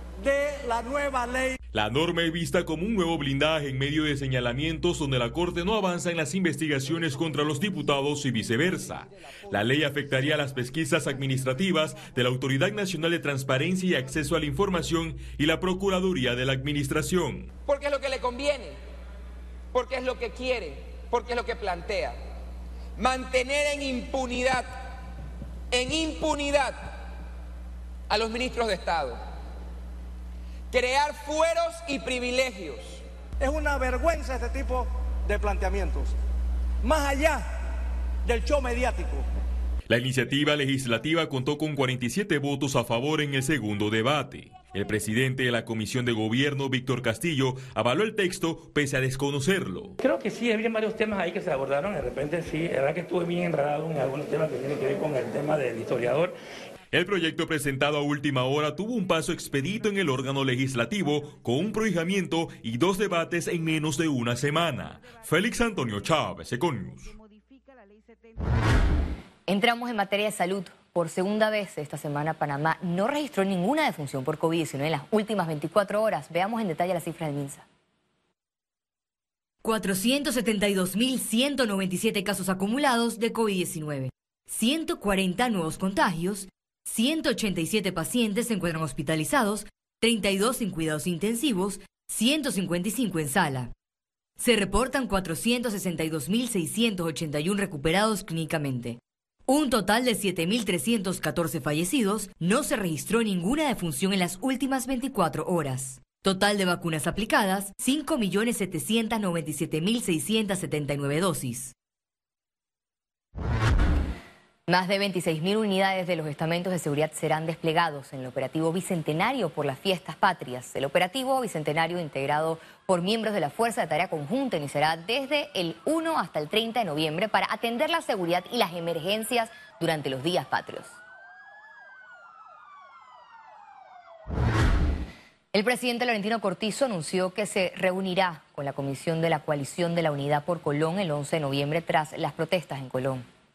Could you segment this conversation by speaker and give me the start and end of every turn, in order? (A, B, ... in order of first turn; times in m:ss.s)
0:00.2-0:01.6 A
0:01.7-0:17.5 B
0:17.7-0:18.8 C
0:19.7-0:22.1 C
0:23.0-0:24.7 C
0:25.7-0:26.9 C
0:28.1-0:29.2 C
0:30.7-0:33.0 C
0:33.4-0:36.1 A
0:36.8-0:37.5 A
0:38.2-0:39.2 A
0:39.9-0:49.9 B
0:50.0-0:56.3 D
0:56.9-1:07.1 B
1:09.5-1:17.6 E
1:19.6-1:33.7 E
1:34.4-1:51.7 E
1:54.7-2:11.0 E
2:15.5-2:23.2 E